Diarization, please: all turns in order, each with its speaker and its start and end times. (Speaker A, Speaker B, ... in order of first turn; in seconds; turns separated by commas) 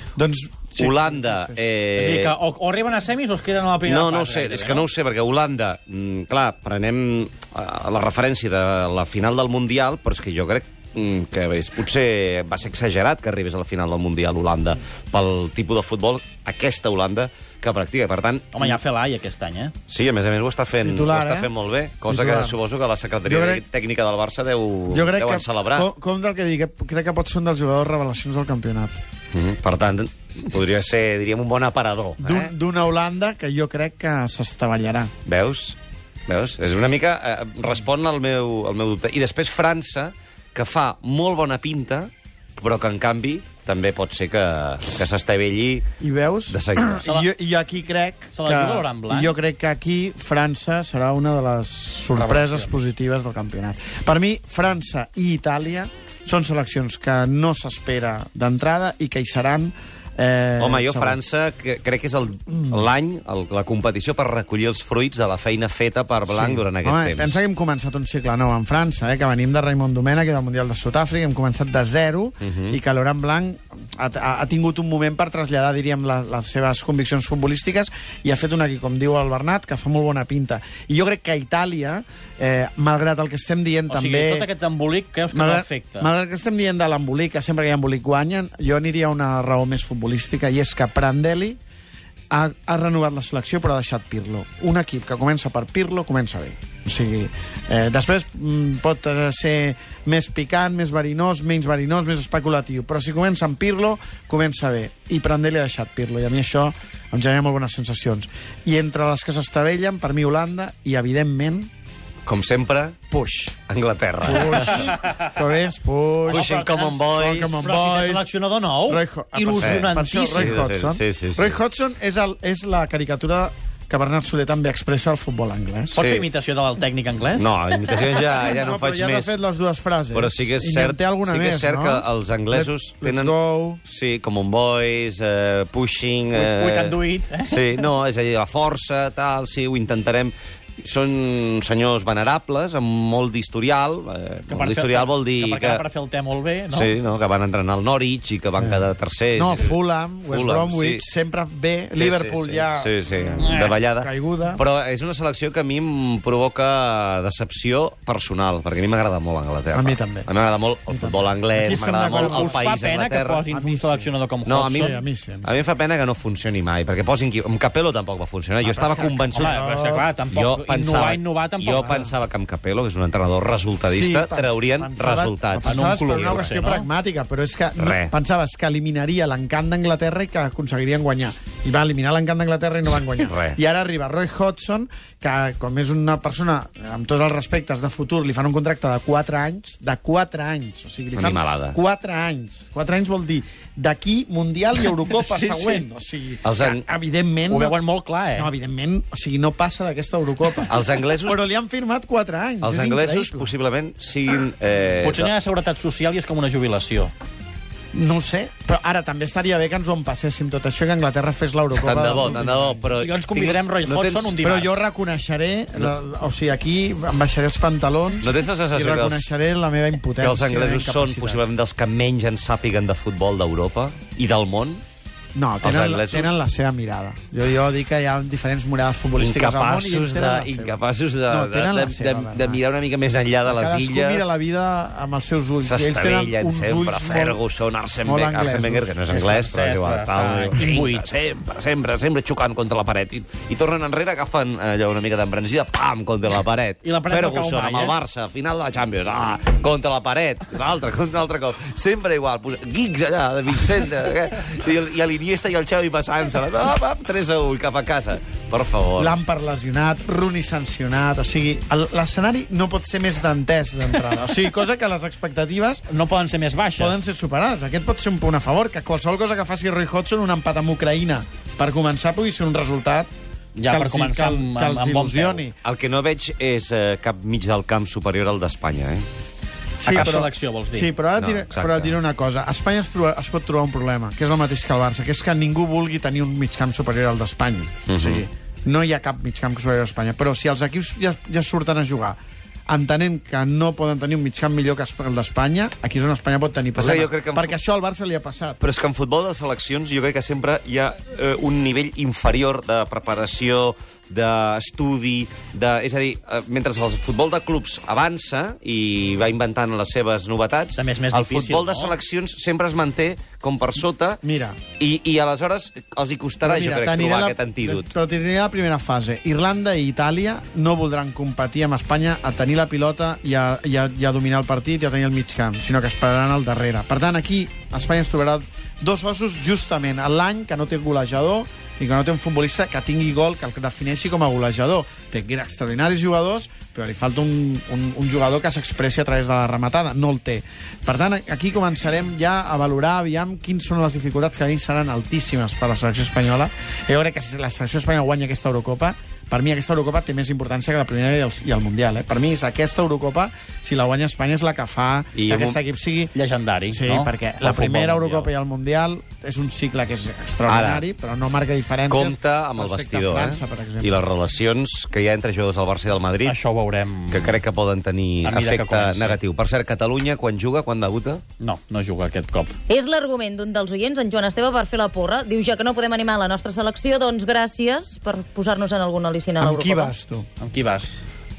Speaker A: 0.1-1.6, Speaker B: 0.8-2.3, Speaker C: 1.9-4.9, Speaker B: 3.8-18.7, Speaker C: 18.5-19.7, Speaker B: 19.9-25.9, Speaker A: 20.8-22.6, Speaker A: 23.2-23.6, Speaker A: 24.9-29.0, Speaker B: 29.3-32.5, Speaker A: 32.2-35.1, Speaker B: 35.2-45.8, Speaker A: 46.0-61.2, Speaker B: 46.5-47.0, Speaker C: 47.0-47.3, Speaker C: 48.3-49.3, Speaker B: 60.6-67.4, Speaker A: 62.5-62.9, Speaker A: 66.3-84.5, Speaker B: 72.4-72.8, Speaker C: 83.9-86.1, Speaker A: 85.3-91.6, Speaker A: 92.3-111.7, Speaker B: 112.2-113.0, Speaker A: 113.1-113.5, Speaker B: 113.7-114.9, Speaker A: 114.2-116.5, Speaker B: 116.3-117.7, Speaker C: 116.3-120.6, Speaker A: 117.1-118.3, Speaker A: 118.8-126.0, Speaker B: 119.5-121.6, Speaker C: 125.9-127.5, Speaker B: 126.0-126.3, Speaker B: 127.3-129.3, Speaker A: 128.3-133.8, Speaker B: 130.1-145.8, Speaker C: 136.3-137.8, Speaker C: 144.5-146.9, Speaker B: 146.7-151.0, Speaker A: 148.6-154.6, Speaker B: 151.9-163.5, Speaker C: 153.4-153.8, Speaker A: 159.7-160.3, Speaker A: 160.9-162.6, Speaker C: 162.1-165.0, Speaker A: 163.5-164.1, Speaker B: 164.4-169.6, Speaker A: 164.7-165.5, Speaker A: 168.6-170.1, Speaker C: 169.3-172.0, Speaker B: 170.3-176.5, Speaker A: 171.8-172.1, Speaker A: 173.9-197.8, Speaker C: 175.6-176.9, Speaker B: 177.8-178.1, Speaker B: 183.2-183.6, Speaker B: 191.1-191.8, Speaker B: 195.2-195.8, Speaker B: 196.4-196.8, Speaker C: 197.5-198.5, Speaker A: 198.3-203.5, Speaker B: 200.7-201.4, Speaker B: 202.6-205.3, Speaker C: 205.0-207.1, Speaker A: 207.9-212.9, Speaker B: 211.8-214.4, Speaker C: 213.0-214.8, Speaker A: 214.4-221.4, Speaker B: 218.2-219.3, Speaker B: 220.2-224.8, Speaker A: 225.3-232.6, Speaker B: 225.6-226.4, Speaker B: 229.2-234.4, Speaker A: 233.4-237.4, Speaker B: 235.6-259.1, Speaker A: 238.0-239.0, Speaker C: 239.1-241.1, Speaker C: 246.8-247.9, Speaker A: 259.0-265.8, Speaker C: 265.9-267.0, Speaker A: 266.8-273.1, Speaker C: 273.6-275.4, Speaker A: 273.7-275.6, Speaker B: 275.6-279.1, Speaker A: 279.8-298.6, Speaker C: 279.8-280.9, Speaker B: 279.8-280.2, Speaker B: 281.2-282.0, Speaker B: 287.9-288.2, Speaker B: 296.7-297.6, Speaker B: 298.6-314.2, Speaker C: 310.7-311.9, Speaker A: 314.2-314.6, Speaker B: 314.8-317.9, Speaker A: 316.4-356.1, Speaker B: 355.1-355.6, Speaker C: 356.1-358.3, Speaker A: 356.7-364.0, Speaker B: 360.4-360.9, Speaker B: 361.9-366.4, Speaker C: 366.2-367.4, Speaker B: 367.1-371.2, Speaker C: 368.2-369.2, Speaker C: 371.4-372.6, Speaker D: 372.7-379.9, Speaker A: 379.4-380.3, Speaker C: 380.4-381.0